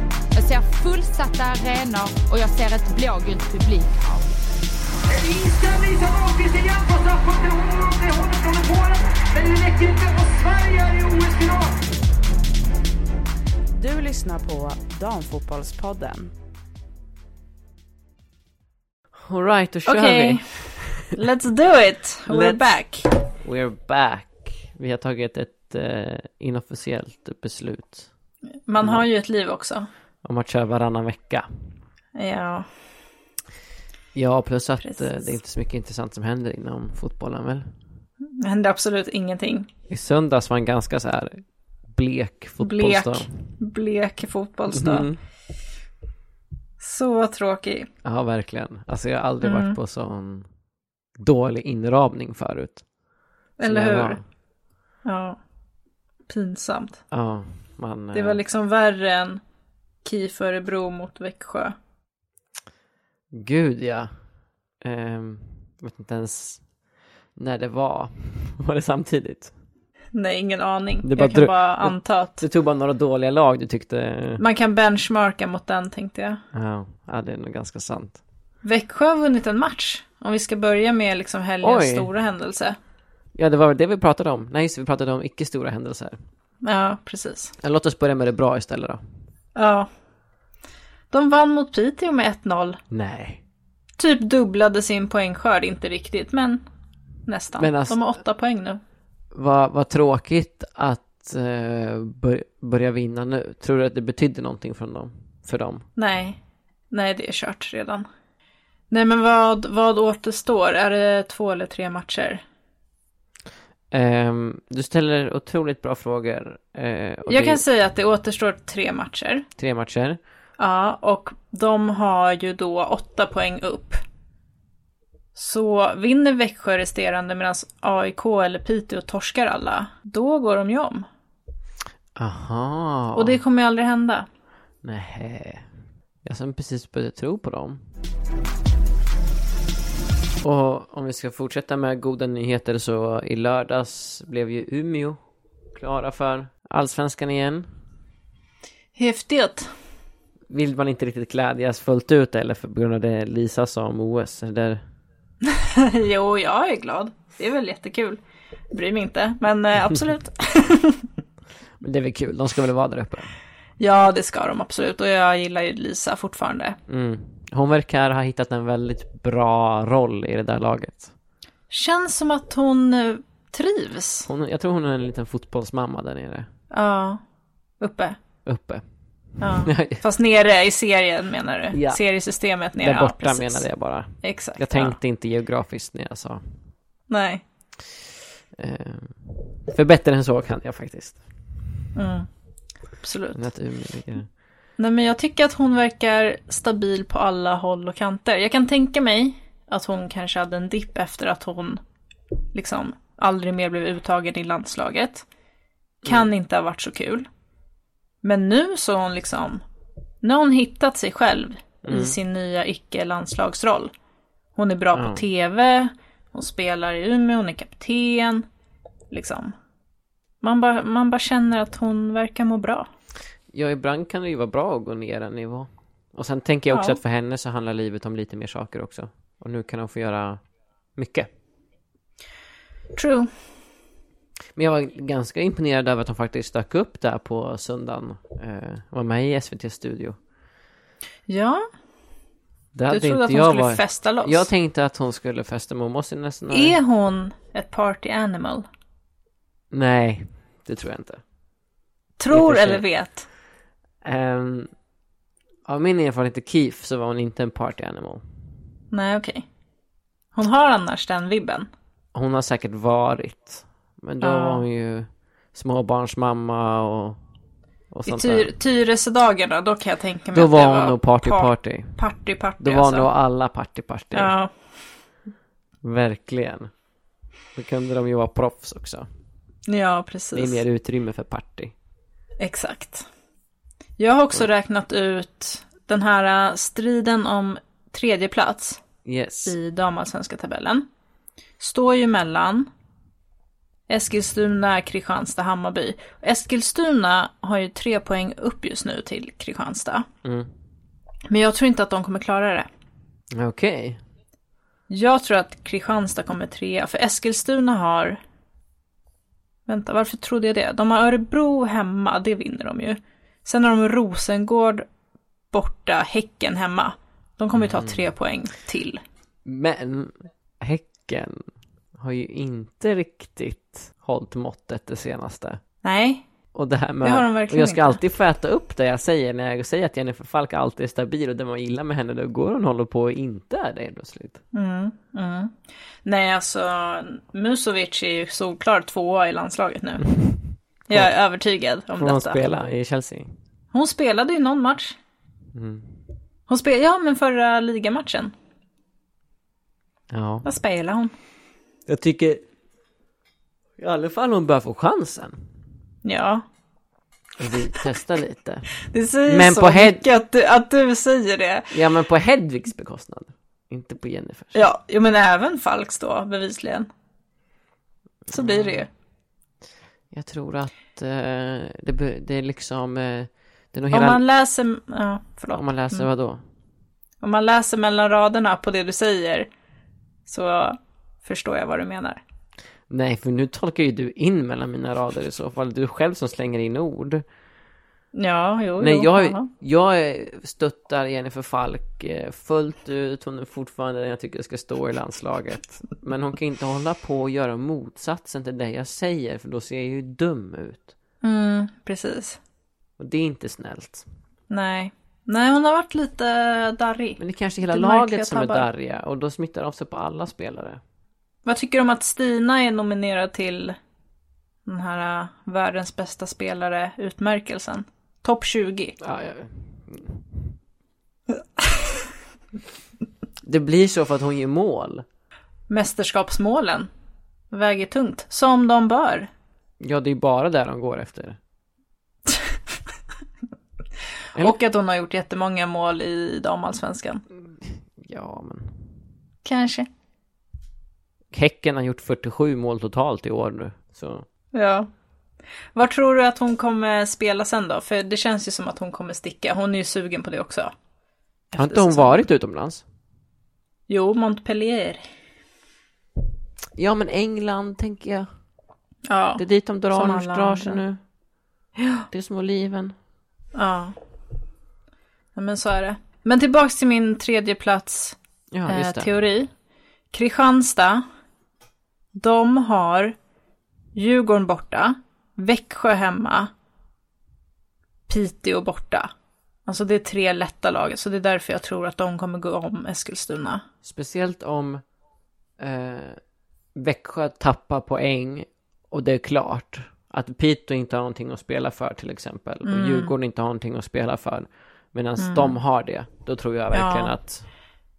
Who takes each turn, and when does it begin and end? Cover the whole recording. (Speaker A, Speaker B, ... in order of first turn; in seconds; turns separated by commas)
Speaker A: 0.3-4.2, Speaker B: 5.1-11.9, Speaker B: 13.7-16.3, Speaker C: 19.1-21.1, Speaker D: 19.9-20.4, Speaker D: 21.0-23.1, Speaker C: 22.3-22.7, Speaker C: 23.4-28.1, Speaker D: 28.7-29.9, Speaker C: 30.2-31.5, Speaker D: 32.2-32.7, Speaker C: 34.1-37.7, Speaker D: 38.4-39.7, Speaker C: 39.9-43.3, Speaker D: 42.6-45.1, Speaker C: 44.7-45.2, Speaker D: 46.8-47.9, Speaker C: 48.0-50.5, Speaker D: 49.4-49.8, Speaker C: 51.2-52.8, Speaker D: 53.6-54.2, Speaker C: 53.6-54.2, Speaker D: 55.0-55.4, Speaker D: 56.3-57.0, Speaker C: 57.1-58.4, Speaker D: 58.1-59.4, Speaker D: 60.0-61.7, Speaker C: 63.3-64.1, Speaker C: 64.8-66.6, Speaker C: 67.3-69.5, Speaker D: 70.1-72.4, Speaker C: 71.0-74.4, Speaker D: 74.4-76.4, Speaker C: 76.5-78.2, Speaker D: 78.6-82.8, Speaker C: 81.6-82.1, Speaker C: 83.3-86.2, Speaker D: 86.6-87.5, Speaker C: 87.6-89.0, Speaker D: 89.5-89.9, Speaker D: 91.1-92.8, Speaker C: 92.9-93.4, Speaker D: 94.0-96.6, Speaker D: 97.2-98.8, Speaker C: 97.6-98.0, Speaker C: 99.3-105.8, Speaker D: 106.0-106.4, Speaker D: 106.9-108.1, Speaker D: 108.9-112.4, Speaker C: 113.9-117.6, Speaker D: 117.3-119.5, Speaker C: 119.6-120.2, Speaker D: 120.6-124.0, Speaker D: 125.3-131.1, Speaker C: 132.2-133.4, Speaker D: 133.1-134.3, Speaker C: 134.8-135.7, Speaker C: 136.2-137.8, Speaker C: 140.4-145.2, Speaker C: 145.7-147.7, Speaker D: 148.9-149.7, Speaker C: 150.5-154.8, Speaker D: 155.4-158.2, Speaker D: 158.7-161.1, Speaker C: 161.8-163.3, Speaker D: 163.8-166.8, Speaker C: 166.9-171.1, Speaker D: 171.7-174.3, Speaker C: 174.3-176.5, Speaker D: 176.7-177.2, Speaker D: 177.8-178.2, Speaker C: 178.4-178.8, Speaker D: 179.4-183.6, Speaker C: 179.6-180.0, Speaker C: 181.7-182.0, Speaker C: 182.8-186.4, Speaker D: 184.2-185.0, Speaker D: 187.1-187.4, Speaker C: 188.6-191.2, Speaker D: 191.9-192.3, Speaker D: 193.0-193.4, Speaker C: 193.3-194.3, Speaker D: 194.8-201.8, Speaker D: 202.5-205.2, Speaker D: 206.0-207.3, Speaker D: 208.2-209.6, Speaker D: 210.2-213.9, Speaker C: 211.8-212.2, Speaker D: 214.5-218.4, Speaker C: 214.9-215.2, Speaker D: 219.1-219.5, Speaker D: 220.4-222.9, Speaker C: 223.5-230.4, Speaker D: 226.7-227.0, Speaker C: 230.9-231.3, Speaker D: 232.9-233.3, Speaker C: 234.5-240.2, Speaker D: 241.3-241.6, Speaker C: 242.8-246.8, Speaker D: 242.9-244.5, Speaker D: 246.5-248.7, Speaker C: 249.7-251.2, Speaker D: 252.2-253.3, Speaker C: 252.3-252.8, Speaker C: 254.0-254.7, Speaker C: 255.7-258.2, Speaker D: 258.9-259.4, Speaker D: 260.4-261.7, Speaker C: 262.1-267.2, Speaker D: 264.2-264.6, Speaker C: 267.9-268.5, Speaker D: 268.1-273.1, Speaker C: 270.3-271.9, Speaker C: 272.6-274.3, Speaker D: 274.1-274.5, Speaker C: 275.8-276.7, Speaker C: 277.6-279.1, Speaker D: 279.7-280.6, Speaker C: 280.3-281.7, Speaker D: 282.4-283.1, Speaker D: 284.0-288.8, Speaker C: 289.1-289.6, Speaker D: 289.4-290.9, Speaker D: 291.6-292.7, Speaker D: 293.9-300.1, Speaker C: 300.2-300.5, Speaker D: 301.3-302.7, Speaker C: 303.3-304.0, Speaker D: 304.9-308.2, Speaker D: 309.7-314.9, Speaker D: 315.5-319.0, Speaker C: 317.6-318.1, Speaker C: 319.4-321.4, Speaker C: 322.0-325.6, Speaker D: 325.8-326.2, Speaker C: 326.5-334.4, Speaker D: 327.0-328.0, Speaker D: 334.5-335.5, Speaker D: 336.1-340.1, Speaker C: 340.2-341.1, Speaker D: 340.9-342.4, Speaker C: 342.0-343.3, Speaker D: 343.7-345.0, Speaker C: 345.5-345.9, Speaker D: 346.5-348.3, Speaker C: 350.1-350.5, Speaker D: 350.4-351.1, Speaker C: 351.9-352.4, Speaker C: 353.8-355.4, Speaker D: 356.0-356.4, Speaker C: 357.4-358.7, Speaker D: 358.9-361.8, Speaker C: 359.3-360.0, Speaker C: 361.7-364.6, Speaker D: 364.6-366.9, Speaker C: 368.3-368.9, Speaker D: 368.3-368.9, Speaker C: 370.1-374.2, Speaker D: 373.9-376.1, Speaker C: 375.6-376.4, Speaker D: 377.2-379.5, Speaker D: 380.2-382.2, Speaker C: 382.9-387.2, Speaker D: 388.1-389.5, Speaker C: 388.8-400.9, Speaker D: 401.2-402.4, Speaker C: 403.0-404.1, Speaker D: 404.5-408.7, Speaker C: 407.2-410.8, Speaker D: 411.5-413.8, Speaker D: 414.7-419.0, Speaker C: 419.0-420.4, Speaker C: 423.4-425.1, Speaker D: 425.7-426.9, Speaker D: 427.5-429.3, Speaker C: 429.8-431.4, Speaker D: 434.4-437.2, Speaker C: 437.6-438.8, Speaker D: 439.4-439.9, Speaker C: 441.3-444.2, Speaker D: 444.5-444.9, Speaker D: 445.8-450.7, Speaker D: 451.5-452.2, Speaker C: 451.6-452.8, Speaker D: 453.9-455.0, Speaker C: 456.8-458.3, Speaker D: 459.1-460.8, Speaker C: 459.4-461.0, Speaker D: 461.8-462.1, Speaker C: 462.1-463.0, Speaker D: 463.6-463.9, Speaker D: 465.4-469.5, Speaker C: 468.5-469.1, Speaker D: 470.1-471.1, Speaker D: 472.2-473.2, Speaker D: 474.0-476.5, Speaker D: 478.1-479.1, Speaker D: 479.7-483.6, Speaker C: 483.8-484.8, Speaker C: 485.6-486.2, Speaker C: 486.8-497.5, Speaker D: 492.7-493.1, Speaker D: 495.2-495.6, Speaker D: 496.7-497.1